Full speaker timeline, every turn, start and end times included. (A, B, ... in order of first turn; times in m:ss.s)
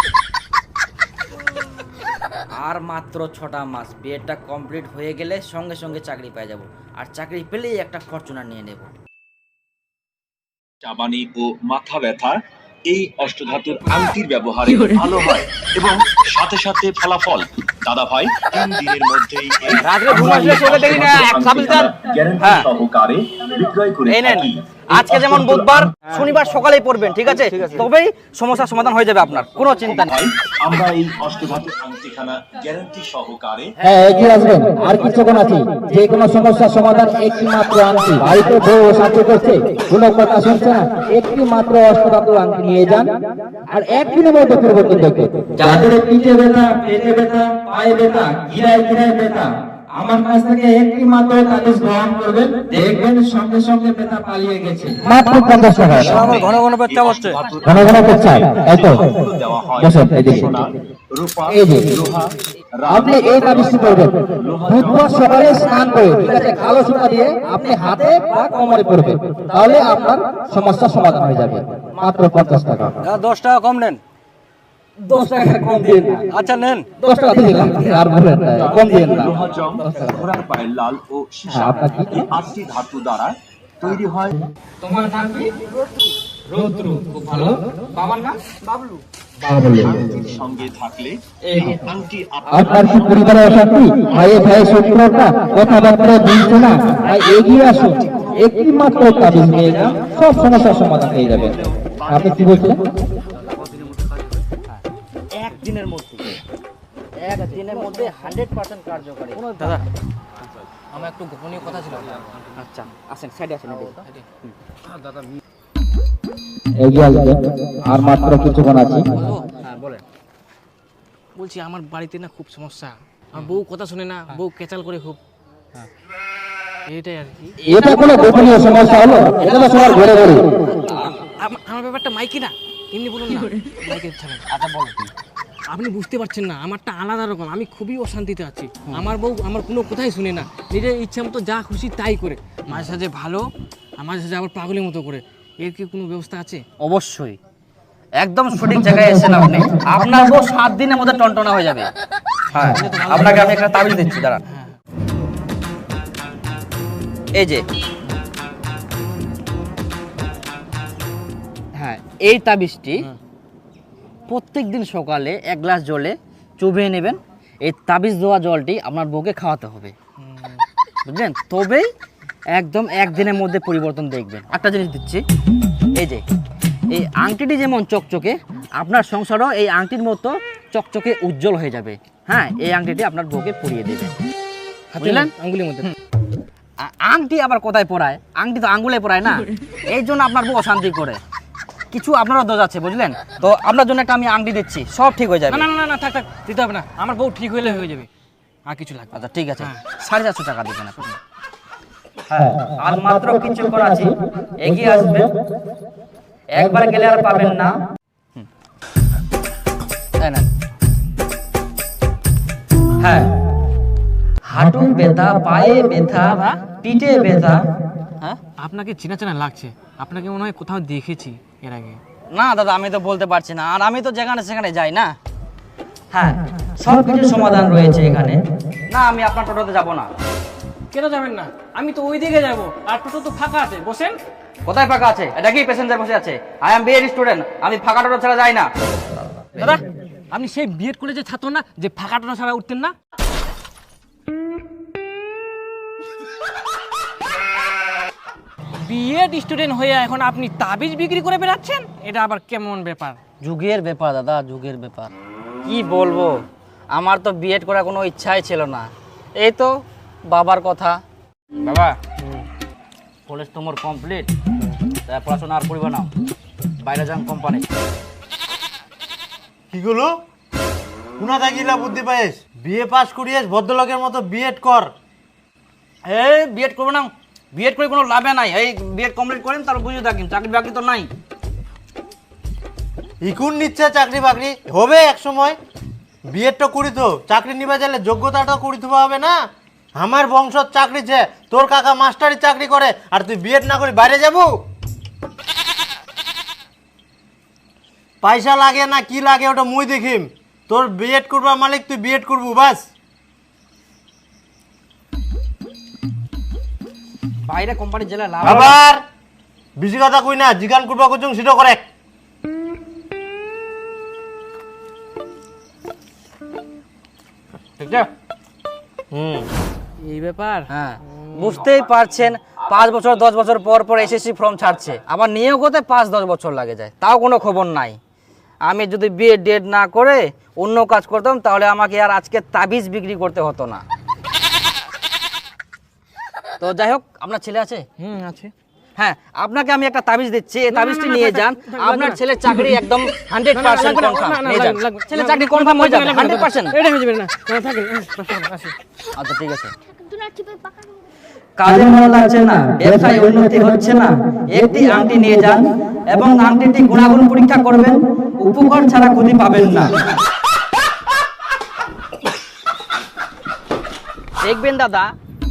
0:02.6-0:08.9 A
0:10.8-0:24.6 B
0:19.8-0:22.7 A
0:24.1-0:30.1 A
0:30.1-0:33.7 B
0:33.8-0:43.0 C
0:43.7-0:56.2 C
0:55.0-0:57.5 A
0:55.6-1:05.8 B
0:57.6-0:59.0 C
0:59.8-1:00.5 C
1:01.5-1:01.9 C
1:02.9-1:04.1 C
1:03.2-1:03.5 A
1:04.6-1:12.9 C
1:05.3-1:08.8 A
1:09.4-1:10.2 A
1:12.0-1:12.2 A
1:13.0-1:14.0 A
1:15.0-1:18.0 A
1:17.0-1:19.3 C
1:18.4-1:24.3 B
1:21.5-1:22.3 C
1:24.8-1:25.7 A
1:26.5-1:28.6 A
1:29.6-1:34.9 B
1:31.4-1:31.8 A
1:32.5-1:41.6 C
1:32.5-1:32.9 A
1:36.9-1:41.3 A
1:41.0-1:42.7 B
1:42.1-1:42.8 C
1:45.4-1:46.4 A
1:47.2-1:49.8 A
1:47.6-1:48.1 D
1:49.4-1:49.8 D
1:50.9-1:52.2 D
1:52.6-1:54.5 A
1:56.8-1:57.4 C
1:57.9-1:59.0 C
1:59.1-1:59.5 D
1:59.6-2:00.0 A
2:01.4-2:05.2 D
2:06.9-2:07.5 D
2:07.6-2:10.4 A
2:07.7-2:10.4 C
2:11.0-2:14.4 D
2:14.5-2:15.1 A
2:15.7-2:23.5 D
2:24.0-2:26.6 D
2:26.8-2:27.4 A
2:28.2-2:31.9 A
2:32.5-2:34.4 A
2:32.6-2:33.5 D
2:34.5-2:34.8 D
2:37.3-2:37.6 A
2:41.8-2:43.1 A
2:44.3-2:49.9 A
2:50.2-2:50.6 D
2:51.0-2:51.9 A
2:52.5-2:55.2 A
2:55.9-2:56.2 A
2:56.9-3:04.2 A
3:04.9-3:05.9 D
3:05.0-3:05.3 A
3:06.8-3:11.2 A
3:11.9-3:15.6 A
3:15.5-3:18.1 D
3:18.6-3:19.8 D
3:19.1-3:21.2 A
3:22.3-3:25.3 A
3:26.5-3:27.8 A
3:30.2-3:30.5 A
3:33.0-3:33.3 A
3:34.4-3:37.6 A
3:38.6-3:42.0 D
3:42.3-3:45.1 A
3:46.1-3:50.1 A
3:50.9-3:54.2 D
3:54.6-3:58.7 A
3:59.6-4:02.9 D
4:08.8-4:13.2 D
4:13.4-4:15.1 A
4:15.6-4:16.3 A
4:16.9-4:19.7 A
4:20.3-4:21.0 A
4:21.6-4:22.0 A
4:23.3-4:24.3 A
4:25.0-4:26.1 A
4:26.8-4:27.6 A
4:29.7-4:30.1 E
4:31.2-4:34.9 E
4:36.1-4:41.1 A
4:43.2-4:45.6 E
4:46.3-4:49.4 E
4:49.9-4:54.6 E
4:58.2-5:02.8 E
5:07.4-5:08.8 A
5:08.4-5:09.0 E
5:09.8-5:11.8 E
5:20.0-5:20.7 D
5:20.7-5:28.0 A
5:28.6-5:33.8 A
5:36.6-5:37.8 A
5:38.0-5:38.5 D
5:39.0-5:46.8 A
5:40.7-5:42.8 D
5:43.5-5:48.7 D
5:49.2-5:49.7 A
5:51.6-5:59.9 A
6:04.4-6:05.1 A